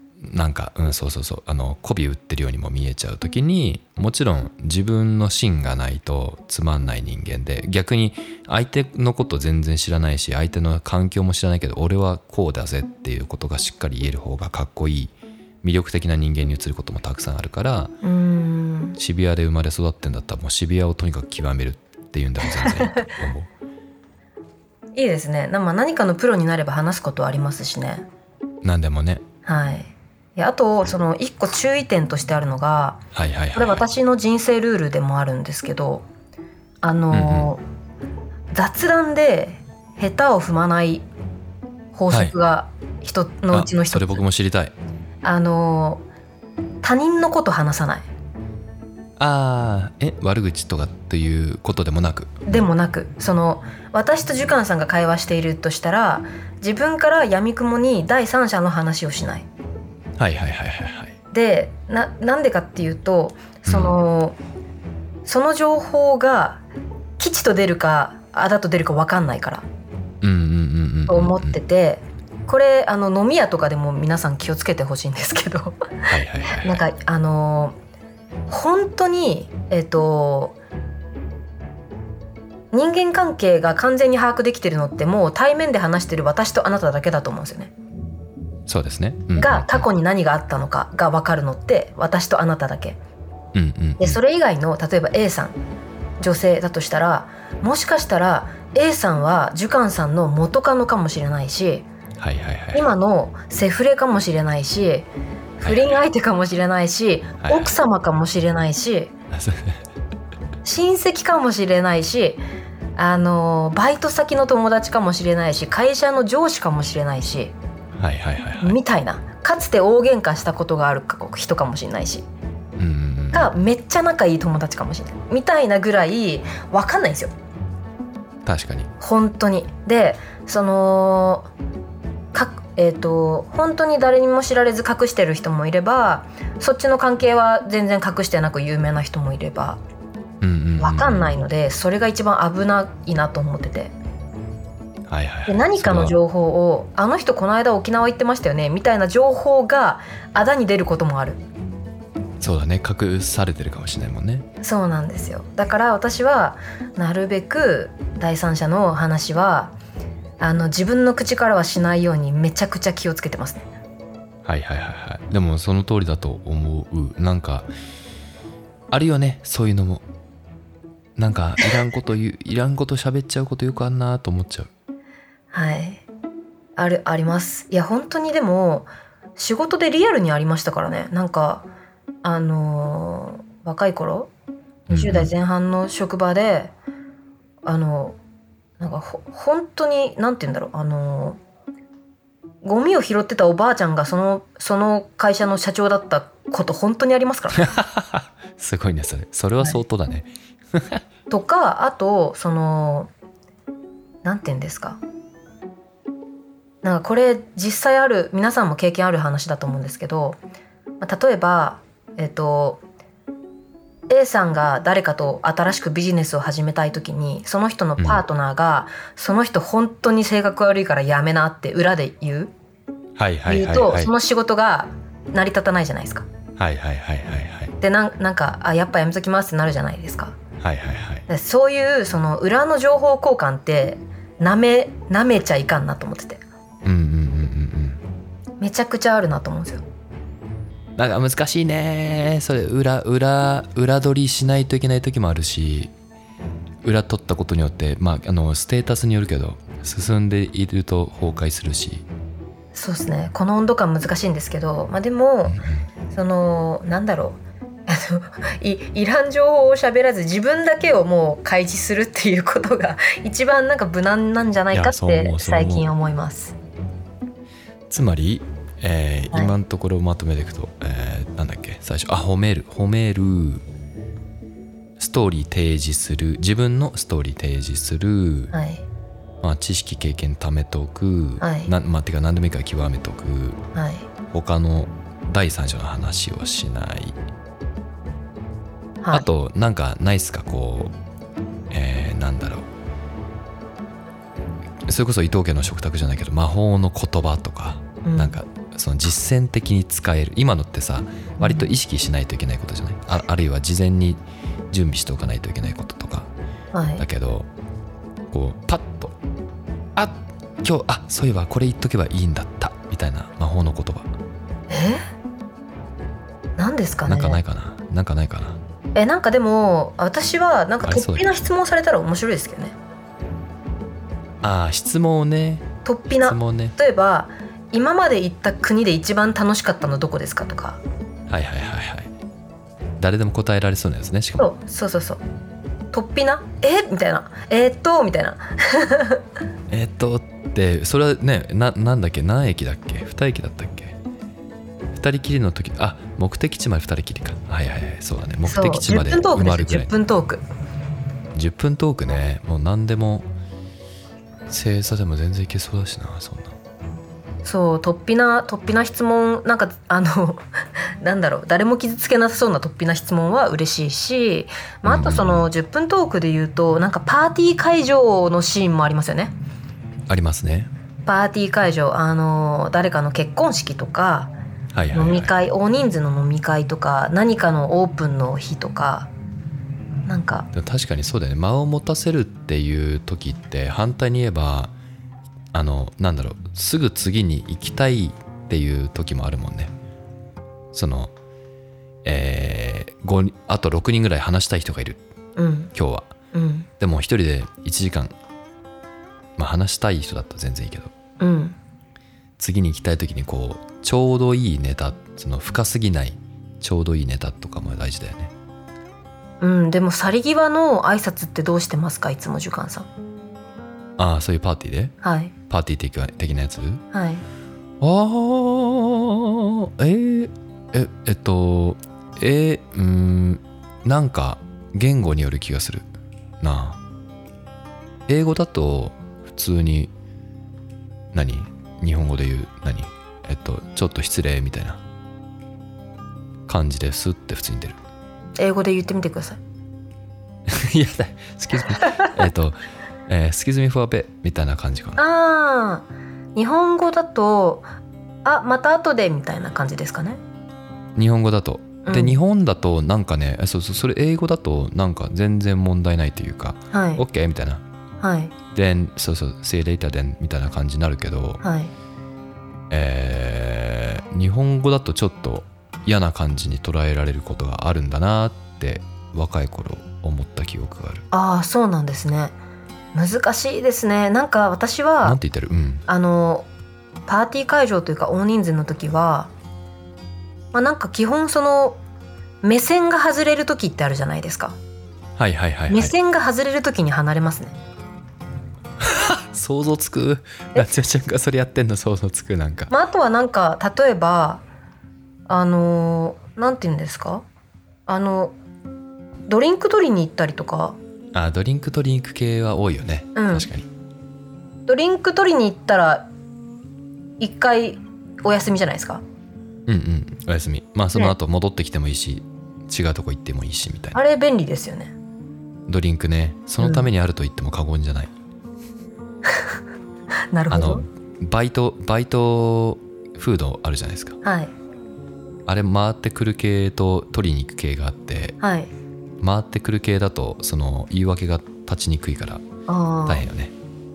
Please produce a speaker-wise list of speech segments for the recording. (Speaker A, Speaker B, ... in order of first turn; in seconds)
Speaker A: 0.2-17.9, 19.0-23.5, 28.6-29.2, 33.1-33.8, 37.1-37.5, 42.1-42.4, 43.5-44.7, 49.2-52.7, 60.2-61.1, 63.7-64.0, 70.2-71.6, 76.1-76.8, 88.7-89.9, 93.5-94.2, 102.2-102.9, 105.6-106.0, 107.4-107.7, 109.3-109.8, 118.0-118.8, 122.8-123.5, 128.4-128.9, 140.4-141.4, 145.1-146.2, 152.4-154.5, 164.4-167.7, 168.9-170.1, 171.2-174.7, 184.9-185.3, 197.6-201.0, 218.0-218.2, 223.2-224.1, 226.6-227.7, 230.6-231.2, 236.8-238.0, 241.0-245.9, 246.8-252.1, 255.4-255.9, 264.7-265.9, 267.9-273.6, 275.0-278.5, 279.4-283.6, 284.3-287.2, 289.1-290.9, 291.7-292.7, 294.9-306.3, 307.0-307.5, 308.3-309.1, 309.9-314.1, 317.1-318.6, 320.8-321.4, 324.4-326.8, 331.3-332.1, 333.0-334.5, 339.7-344.0, 344.9-349.9, 351.3-353.3, 354.5-356.6, 364.9-365.4, 370.1-370.7, 374.7-375.3, 380.5-384.7, 385.5-389.7, 390.7-391.1, 392.0-395.0, 395.8-396.1, 396.8-398.1, 399.4-400.9, 402.4-408.3, 414.0-414.9, 415.5-416.8, 417.8-426.8, 428.1-429.9, 431.1-434.8, 436.5-437.8, 440.5-445.0, 451.0-457.6, 458.5-461.4, 462.7-471.1, 475.0-475.9, 485.2-485.9, 488.8-492.7, 501.1-503.7, 509.7-514.0, 515.7-518.1, 520.5-524.2, 525.5-528.4, 529.2-532.5, 533.1-533.5
Speaker B: 18.0-19.0, 22.6-23.1, 24.9-28.1, 29.5-33.0, 33.5-36.1, 36.8-37.6, 38.5-41.1, 41.9-44.2, 45.2-46.0, 46.8-48.1, 52.5-59.5, 61.3-64.4, 65.2-66.6, 67.2-69.7, 71.1-77.8, 78.5-80.6, 82.7-87.7, 89.4-93.0, 94.0-95.6, 96.2-101.9, 102.7-105.1, 105.6-109.1, 110.6-112.4, 113.0-117.5, 118.6-122.3, 123.3-127.3, 129.0-131.5, 132.3-139.8, 140.8-143.9, 145.5-151.4, 154.6-159.8, 160.4-163.7, 175.5-176.0, 176.8-181.7, 182.2-184.3, 184.9-186.7, 187.6-188.2, 188.8-191.4, 192.6-197.7, 201.3-203.1, 204.2-205.0, 206.8-210.4, 211.0-212.8, 214.1-222.5, 223.5-226.3, 227.8-230.4, 231.3-236.4, 238.6-239.8, 252.7-255.6, 256.1-266.6, 278.5-278.9, 281.4-281.7, 283.8-284.1, 289.0-289.3, 298.1-298.4, 301.4-301.7, 306.7-307.0, 314.7-315.0, 316.6-317.4, 318.9-322.8, 325.9-330.8, 334.4-335.2, 335.9-339.2, 348.4-350.4, 357.4-360.4, 361.0-369.4, 371.1-374.3, 374.9-379.1, 380.1-380.5, 395.4-395.7, 396.3-396.7, 401.2-401.6, 409.4-412.9, 415.0-415.3, 416.9-417.2, 438.4-439.4, 441.8-442.1, 445.0-447.7, 448.2-450.2, 451.9-452.2, 456.7-457.0, 458.0-458.3, 461.4-461.7, 471.1-472.4, 472.9-475.2, 475.9-476.5, 477.1-479.3, 480.5-481.8, 482.4-484.6, 485.7-487.6, 492.7-494.4, 495.3-497.2, 497.9-498.3, 499.3-500.8, 503.2-503.5, 504.7-506.1, 507.2-509.0, 514.0-514.9, 516.6-516.9, 520.3-520.9, 524.2-524.5, 528.4-528.7, 532.7-533.3